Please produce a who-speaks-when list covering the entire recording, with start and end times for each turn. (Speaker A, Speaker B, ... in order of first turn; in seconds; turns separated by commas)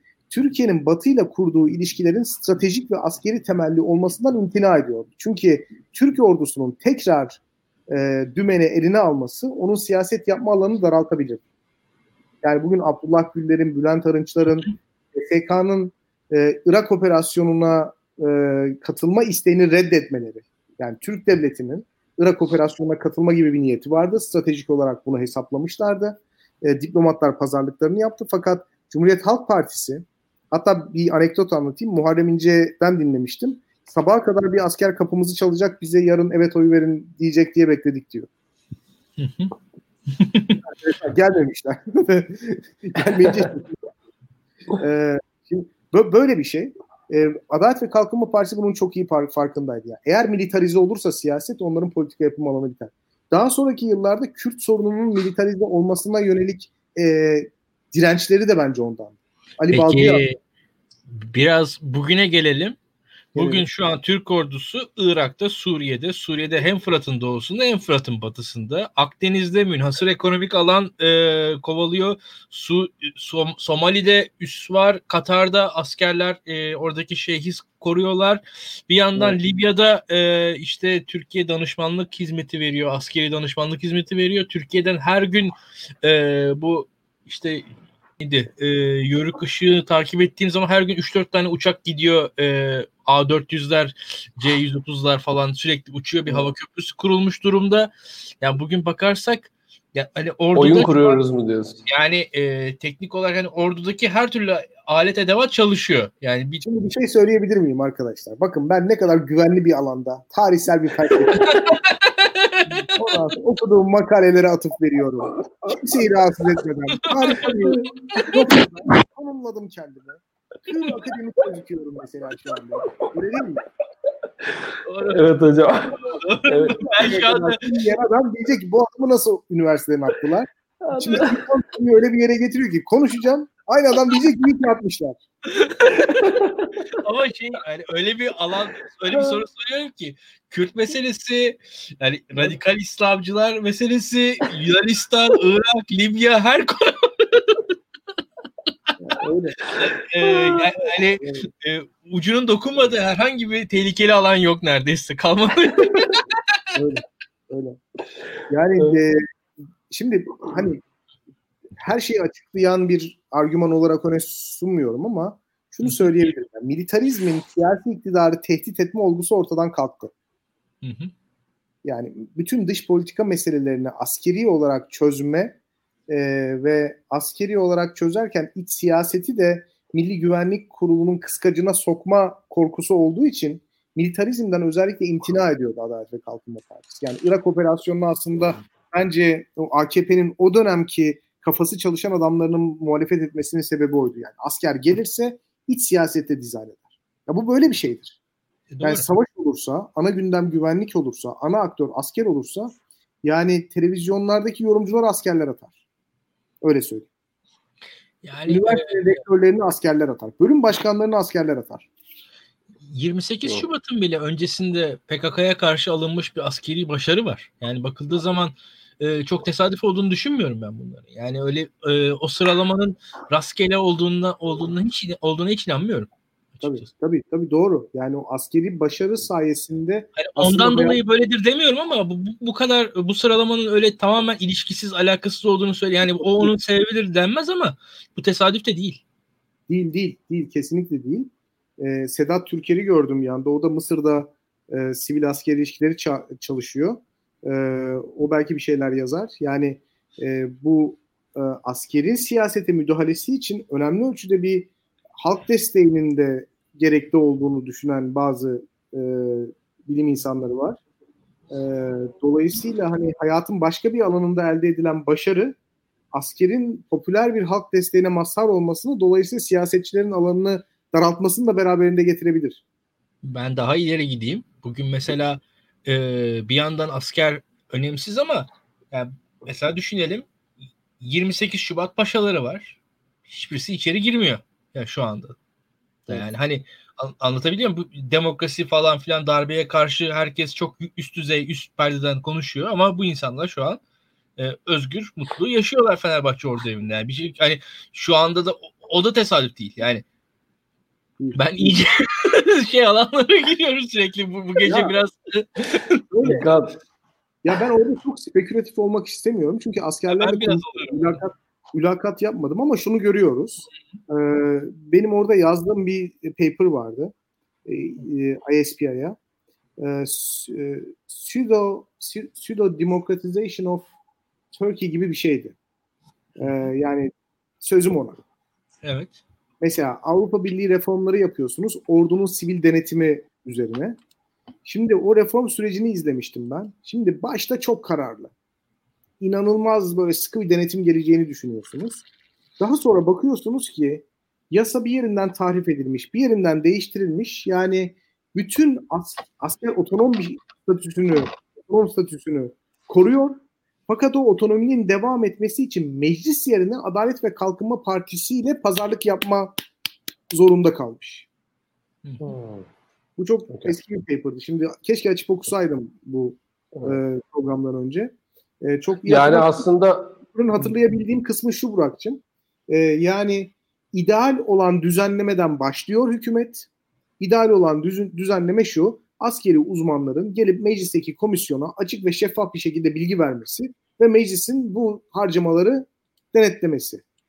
Speaker A: 0.3-11.4, Speaker A: 12.4-38.3, Speaker B: 39.2-39.5, Speaker B: 40.1-40.6, Speaker A: 40.6-43.9, Speaker A: 44.8-60.2, Speaker B: 59.7-60.4, Speaker B: 61.1-62.8, Speaker A: 63.4-63.7, Speaker B: 63.4-87.7, Speaker B: 88.2-97.9, Speaker B: 98.4-101.2, Speaker C: 100.5-101.8, Speaker B: 101.9-106.6, Speaker A: 106.6-111.8, Speaker B: 111.4-112.9, Speaker A: 112.9-123.6, Speaker B: 117.0-117.6, Speaker C: 124.7-126.9, Speaker B: 124.9-125.2, Speaker B: 126.2-127.6, Speaker A: 127.0-135.2, Speaker C: 130.9-131.4, Speaker B: 135.5-136.4, Speaker C: 135.9-136.7, Speaker B: 137.0-147.6, Speaker C: 139.1-139.4, Speaker A: 149.0-149.6, Speaker C: 149.7-150.7, Speaker B: 149.8-156.3, Speaker A: 156.8-157.8, Speaker A: 158.5-159.2, Speaker A: 159.9-160.8, Speaker A: 161.8-170.1, Speaker B: 165.8-166.1, Speaker B: 170.8-171.1, Speaker A: 171.8-175.6, Speaker A: 176.1-198.2, Speaker B: 198.7-199.1, Speaker A: 198.8-202.7, Speaker A: 203.2-205.7, Speaker A: 206.6-207.1, Speaker B: 208.2-209.2, Speaker A: 208.5-211.9, Speaker B: 212.8-226.9, Speaker A: 226.6-231.0, Speaker B: 230.2-239.0, Speaker A: 236.1-236.5, Speaker A: 239.7-260.8, Speaker A: 261.5-265.6, Speaker A: 266.1-272.6, Speaker B: 273.2-280.3, Speaker B: 281.0-285.4, Speaker B: 286.1-293.8, Speaker B: 294.4-300.0, Speaker A: 301.2-301.8, Speaker B: 301.4-306.4, Speaker A: 304.6-304.9, Speaker A: 306.1-306.5, Speaker C: 306.2-306.8, Speaker A: 307.4-317.1, Speaker B: 310.1-311.2, Speaker A: 317.7-319.2, Speaker A: 319.8-323.9, Speaker A: 324.5-325.6, Speaker A: 326.4-328.2, Speaker B: 328.8-329.2, Speaker A: 329.6-334.0, Speaker A: 334.6-338.3, Speaker A: 339.2-342.0, Speaker A: 342.6-359.6, Speaker A: 360.3-361.3, Speaker C: 362.2-362.7, Speaker A: 363.2-376.7, Speaker C: 363.5-363.8, Speaker C: 366.7-367.0, Speaker C: 369.1-370.2, Speaker A: 377.2-387.0